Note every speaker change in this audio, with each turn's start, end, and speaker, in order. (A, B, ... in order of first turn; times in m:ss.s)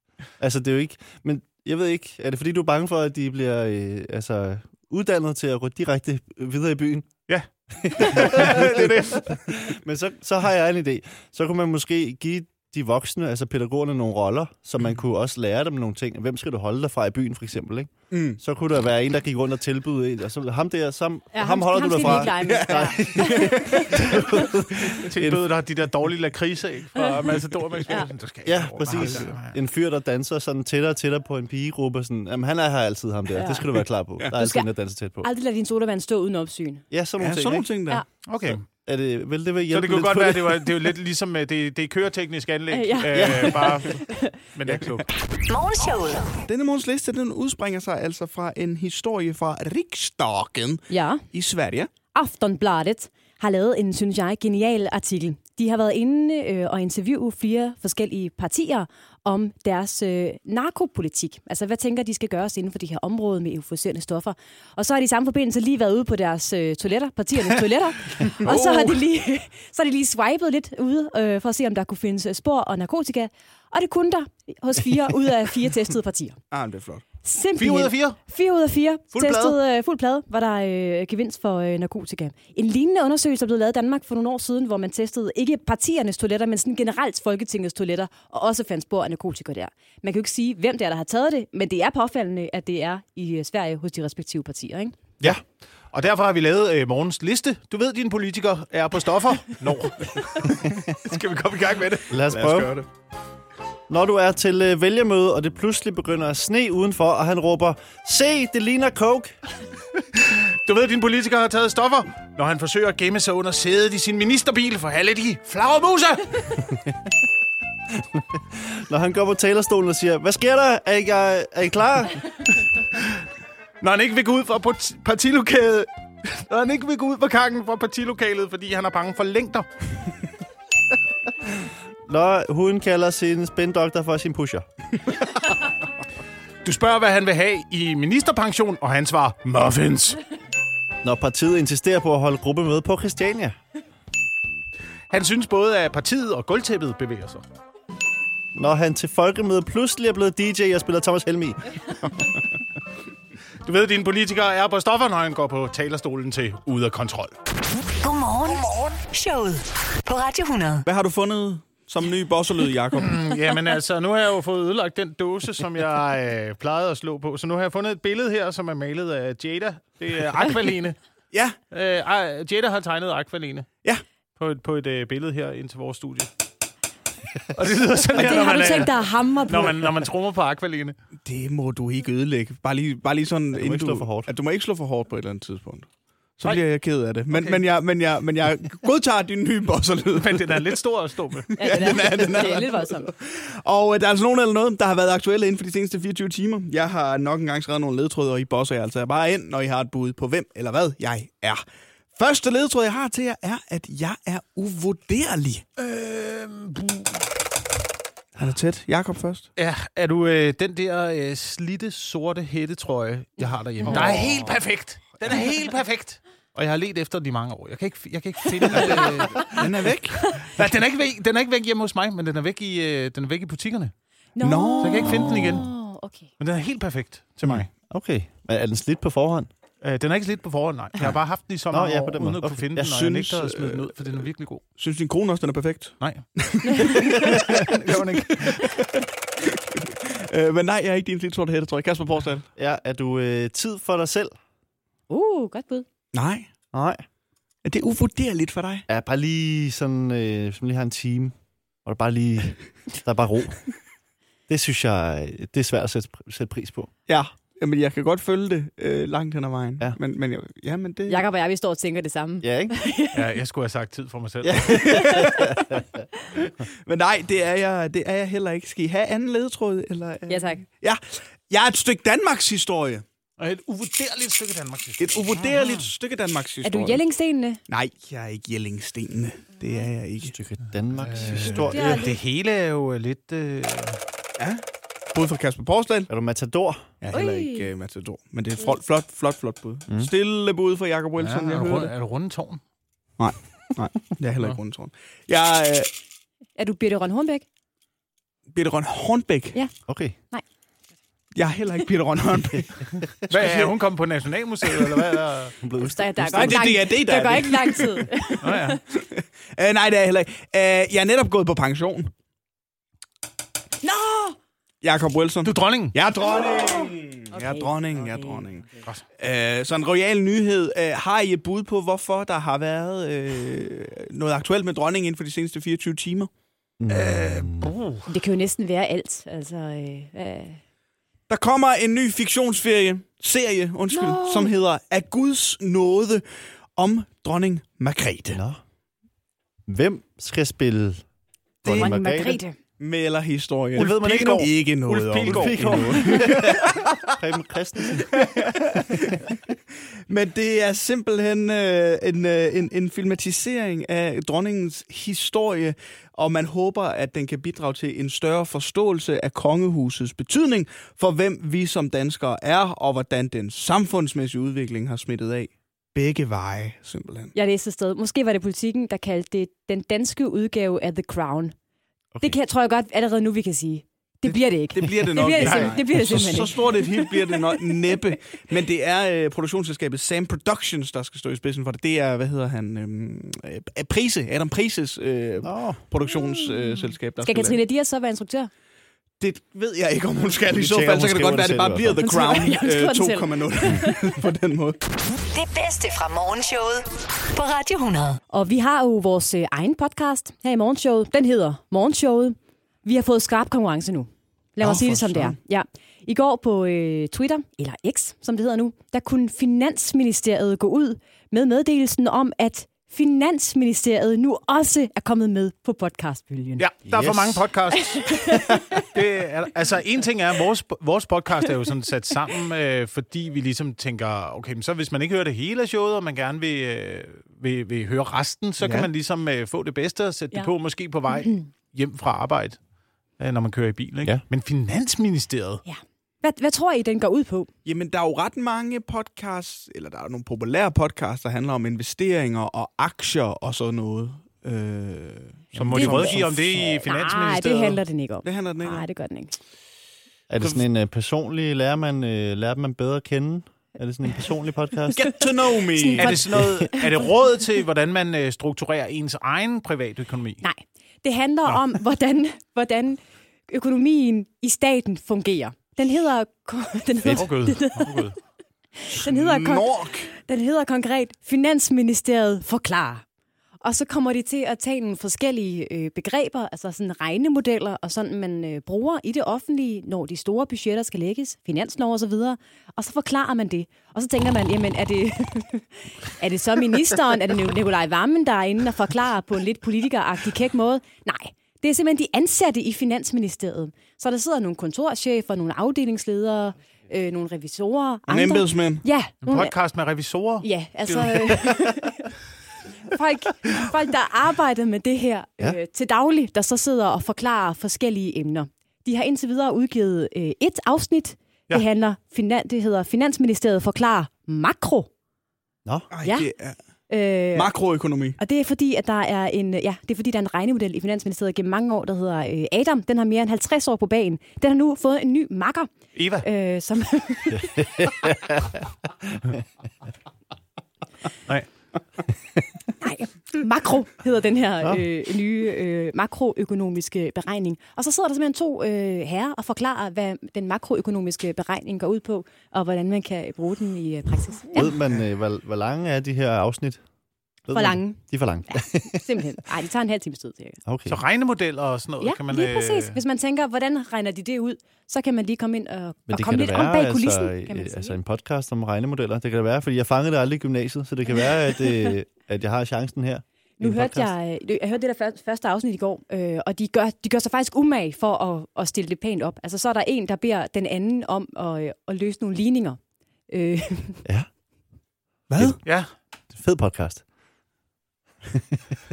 0:00.4-0:07.1 A
0:07.3-0:09.4 B
0:07.8-0:25.4 A
0:18.1-0:18.4 C
0:21.3-0:24.5 D
0:22.3-0:23.8 C
0:24.9-0:29.6 B
0:27.0-0:27.2 D
0:28.4-0:35.3 A
0:29.0-0:29.3 C
0:33.3-0:33.7 D
0:34.3-0:34.7 D
0:35.2-0:36.8 D
0:36.9-0:37.7 A
0:37.2-0:38.0 C
0:38.3-0:38.6 B
0:38.8-0:40.7 A
0:39.7-0:45.1 B
0:42.7-0:44.4 D
0:43.1-0:43.7 A
0:44.7-0:45.0 C
0:45.5-0:46.4 E
0:46.5-0:51.9 C
0:50.9-0:51.2 D
0:52.1-1:16.4 D
1:08.4-1:09.0 C
1:16.5-1:17.0 C
1:17.2-1:35.0 D
1:17.6-1:18.2 B
1:19.2-1:19.6 B
1:35.9-1:42.1 B
1:42.1-1:42.8 A
1:42.3-1:42.9 C
1:43.9-1:49.4 A
1:50.2-1:56.7 B
1:58.0-2:02.2 A
2:02.9-2:03.2 B
2:03.8-2:09.7 B
2:12.1-2:14.7 A
2:16.6-2:20.2 B
2:21.0-2:23.6 A
2:25.1-2:27.4 B
2:28.6-2:31.7 A
2:33.6-2:37.3 B
2:38.0-2:40.8 E
2:40.8-2:43.2 C
2:43.0-2:51.0 B
2:51.7-2:53.7 B
2:54.4-2:56.3 B
2:57.5-3:01.0 B
2:58.1-2:59.9 D
3:01.2-3:10.7 C
3:03.5-3:04.3 A
3:07.3-3:07.6 B
3:10.2-3:12.0 B
3:11.5-3:21.6 C
3:11.6-3:13.1 D
3:22.1-3:25.6 C
3:25.8-3:27.3 B
3:28.4-3:29.5 C
3:29.6-3:39.7 B
3:33.9-3:34.5 C
3:38.6-3:39.4 D
3:38.7-3:40.3 C
3:40.1-3:40.5 D
3:40.3-3:43.9 B
3:44.4-3:46.3 D
3:44.4-3:45.6 C
3:44.8-3:45.7 B
3:46.4-3:47.7 B
3:47.4-3:49.5 A
3:49.8-3:54.6 B
3:51.7-3:52.9 A
3:52.8-3:54.0 C
3:54.8-4:02.5 C
3:56.0-3:58.8 B
3:56.7-3:57.4 D
4:02.6-4:04.4 A
4:05.1-4:05.9 D
4:06.1-4:06.5 C
4:06.7-4:07.0 A
4:07.6-4:08.8 C
4:08.9-4:11.3 A
4:11.8-4:13.7 A
4:14.5-4:16.9 A
4:17.1-4:21.2 C
4:21.1-4:23.3 D
4:22.4-4:22.7 A
4:23.1-4:25.2 B
4:24.5-4:25.6 C
4:24.8-4:25.6 D
4:25.0-4:26.0 A
4:26.3-4:33.0 C
4:30.3-4:30.6 D
4:33.4-4:35.9 B
4:35.0-4:37.0 C
4:36.6-4:37.6 D
4:37.7-4:40.4 C
4:40.2-4:42.0 A
4:41.0-4:44.0 B
4:41.6-4:42.2 D
4:44.4-4:46.1 C
4:46.1-4:46.9 A
4:47.0-4:51.9 C
4:47.1-4:47.7 D
4:51.2-4:52.6 B
4:53.2-4:55.9 C
4:56.6-4:57.4 D
4:58.5-4:59.6 C
4:59.9-5:00.2 A
5:01.4-5:03.7 C
5:03.3-5:05.6 B
5:04.6-5:05.2 C
5:05.6-5:06.7 A
5:05.9-5:08.8 D
5:06.3-5:08.4 C
5:08.4-5:08.8 B
5:08.9-5:12.1 C
5:13.8-5:14.4 D
5:14.8-5:26.3 C
5:15.4-5:16.0 B
5:17.3-5:18.4 D
5:26.8-5:27.7 A
5:26.9-5:27.5 C
5:27.6-5:28.0 B
5:28.1-5:30.6 D
5:31.3-5:36.2 C
5:33.9-5:34.5 D
5:36.8-5:38.4 C
5:38.3-5:38.6 A
5:39.7-5:41.0 A
5:41.6-5:42.4 A
5:41.7-5:41.9 C
5:41.7-5:42.6 D
5:42.8-5:47.0 C
5:43.8-5:46.4 B
5:43.8-5:44.5 A
5:45.2-5:48.1 A
5:48.0-5:49.4 C
5:50.1-6:07.3 C
6:07.4-6:11.5 D
6:12.2-6:18.0 D
6:14.3-6:27.6 C
6:15.4-6:15.8 B
6:25.4-6:25.8 A
6:27.2-6:28.5 D
6:29.2-6:34.8 C
6:30.5-6:32.3 A
6:32.0-6:34.2 D
6:35.3-6:38.2 E
6:38.3-6:56.7 D
6:44.6-6:45.4 A
6:56.6-7:12.6 B
6:56.9-6:57.4 A
6:57.7-6:58.9 D
7:08.6-7:08.9 C
7:11.1-7:11.4 D
7:13.2-7:15.6 B
7:15.6-7:17.5 D
7:17.6-7:26.7 C
7:25.5-7:27.8 B
7:25.7-7:29.3 D
7:28.2-7:28.9 C
7:30.3-7:35.2 A
7:34.9-7:36.3 C
7:35.8-7:36.2 D
7:36.0-7:40.4 B
7:36.4-7:36.7 A
7:40.4-7:48.0 D
7:47.1-7:48.2 B
7:48.8-7:53.0 D
7:48.9-7:50.1 C
7:53.6-8:19.5 D
8:18.1-8:18.8 C
8:19.2-8:21.6 B
8:20.4-8:22.1 D
8:22.8-8:34.9 D
8:35.9-8:36.6 C
8:36.0-8:36.3 D
8:36.9-8:37.5 D
8:37.4-8:38.2 C
8:38.2-8:48.1 D
8:46.0-8:46.3 B
8:47.3-8:49.4 A
8:52.8-9:04.8 D
9:04.6-9:06.8 A
9:07.5-9:09.0 A
9:07.5-9:10.6 D
9:10.7-9:11.0 A
9:10.9-9:13.0 B
9:12.0-9:18.0 D
9:16.1-9:24.1 A
9:23.6-9:34.0 D
9:35.3-9:35.6 C
9:36.3-9:37.0 A
9:38.3-9:38.6 A